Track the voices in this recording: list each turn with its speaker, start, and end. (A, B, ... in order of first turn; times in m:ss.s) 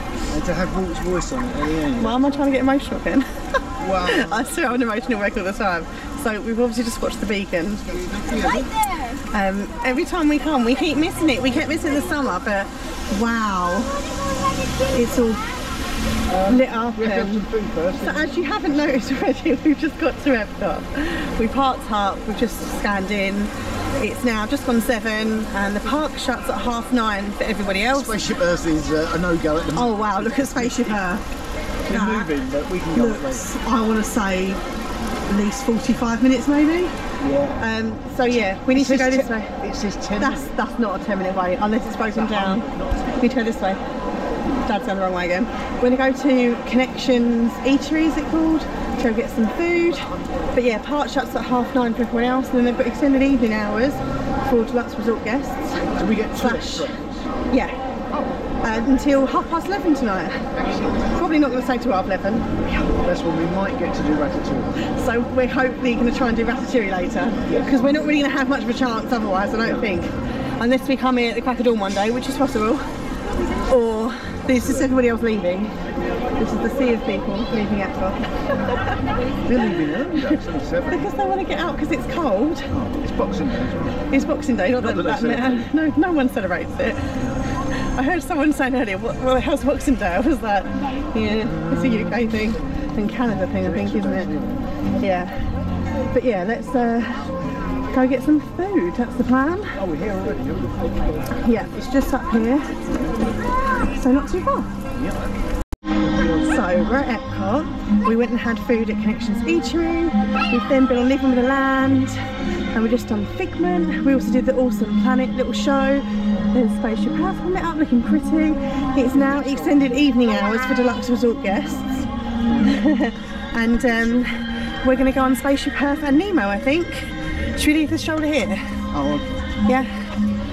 0:00.3-0:02.4 A
0:02.0-0:07.9 B
0:03.8-0:04.5 A
0:07.8-0:08.7 A
0:08.3-0:09.2 C
0:09.3-0:14.0 B
0:14.0-0:15.4 C
0:14.9-0:15.4 B
0:16.3-0:18.3 A
0:16.4-0:28.2 B
0:27.9-0:31.0 A
0:29.7-0:31.3 B
0:31.9-0:33.5 A
0:31.9-0:32.4 B
0:32.9-0:34.6 B
0:35.3-0:36.9 B
0:37.2-0:37.6 A
0:37.6-0:39.6 B
0:38.7-0:40.5 A
0:40.2-0:43.8 B
0:42.1-0:43.2 A
0:44.5-0:57.0 B
0:55.9-0:57.3 A
0:57.5-0:57.8 B
0:58.1-0:58.7 A
0:58.6-1:02.9 B
1:00.6-1:01.2 A
1:03.0-1:04.8 A
1:04.8-1:12.9 B
1:13.6-1:15.8 B
1:14.6-1:14.9 A
1:16.4-1:19.0 B
1:19.4-1:21.1 A
1:19.6-1:20.4 B
1:20.9-1:22.7 B
1:22.7-1:24.1 A
1:24.1-1:27.1 B
1:24.8-1:25.7 A
1:27.7-1:34.3 B
1:31.4-1:32.4 A
1:33.6-1:34.7 A
1:35.0-1:35.4 B
1:36.1-1:37.4 B
1:37.9-1:39.8 B
1:39.8-1:41.6 A
1:41.4-1:42.9 B
1:42.9-1:43.3 A
1:43.8-1:44.7 B
1:44.9-1:45.4 A
1:46.3-1:52.2 B
1:52.7-2:01.9 B
1:59.1-1:59.9 A
2:01.6-2:02.8 A
2:02.6-2:08.8 B
2:08.9-2:09.6 A
2:09.7-2:09.9 B